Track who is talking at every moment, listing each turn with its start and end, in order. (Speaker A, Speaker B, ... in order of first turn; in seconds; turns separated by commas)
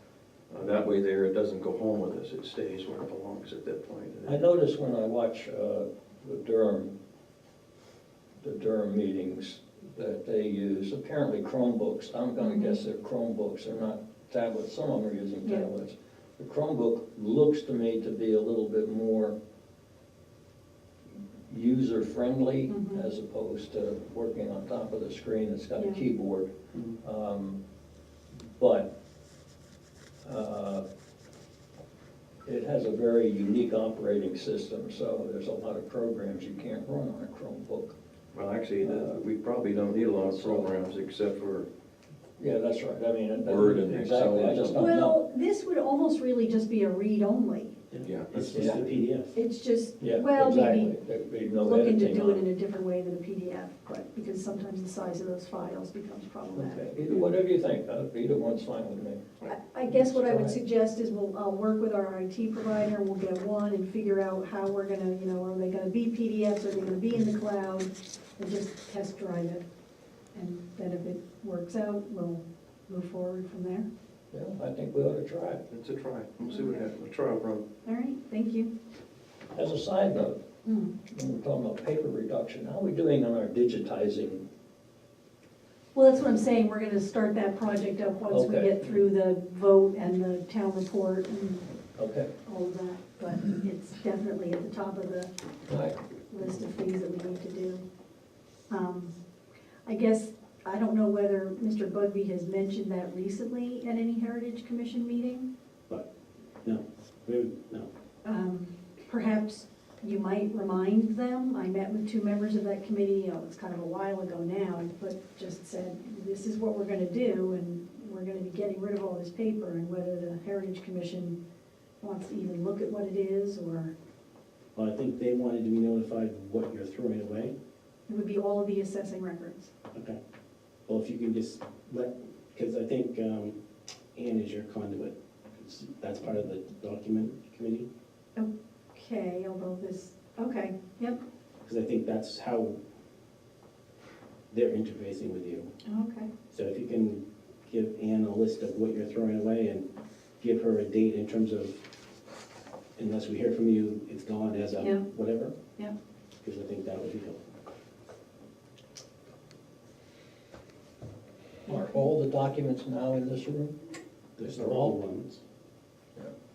Speaker A: 0.5-4.4, Speaker B: 4.3-6.9, Speaker B: 8.4-19.4, Speaker C: 12.4-12.8, Speaker C: 15.4-15.7, Speaker B: 21.5-26.5, Speaker C: 22.7-23.1, Speaker C: 25.8-26.0, Speaker B: 27.0-27.6, Speaker B: 28.6-28.9, Speaker B: 30.2-30.9, Speaker B: 32.5-38.0, Speaker A: 38.3-41.7, Speaker B: 38.8-39.2, Speaker B: 40.2-40.7, Speaker B: 42.4-45.2, Speaker A: 43.4-45.0, Speaker C: 44.7-47.8, Speaker D: 47.9-49.4, Speaker A: 48.0-48.6, Speaker B: 48.5-48.8, Speaker C: 49.3-56.9, Speaker B: 50.0-52.5, Speaker B: 56.5-60.6, Speaker C: 59.5-69.6, Speaker C: 70.3-73.9, Speaker B: 74.3-75.6, Speaker A: 75.7-77.7, Speaker C: 76.5-76.9, Speaker C: 77.8-78.7, Speaker B: 79.5-80.4, Speaker C: 80.6-81.0, Speaker B: 81.1-84.5, Speaker C: 85.9-91.7, Speaker B: 88.3-89.0, Speaker B: 92.0-92.3, Speaker C: 92.5-95.3, Speaker B: 95.7-96.0, Speaker C: 96.3-97.8, Speaker C: 98.7-99.1, Speaker C: 99.8-105.5, Speaker D: 106.6-107.9, Speaker C: 108.2-121.4, Speaker C: 122.0-123.9, Speaker D: 124.8-127.5, Speaker C: 128.1-129.7, Speaker D: 129.9-130.2, Speaker D: 130.9-133.6, Speaker D: 134.2-137.9, Speaker C: 138.4-141.2, Speaker D: 141.6-142.8, Speaker D: 144.5-145.7, Speaker C: 145.9-146.3, Speaker D: 146.5-149.9, Speaker D: 150.4-151.8, Speaker D: 153.0-155.5, Speaker C: 154.8-155.0, Speaker D: 156.4-157.4, Speaker C: 161.7-162.1, Speaker B: 161.7-163.7, Speaker D: 164.4-165.4, Speaker B: 164.4-165.0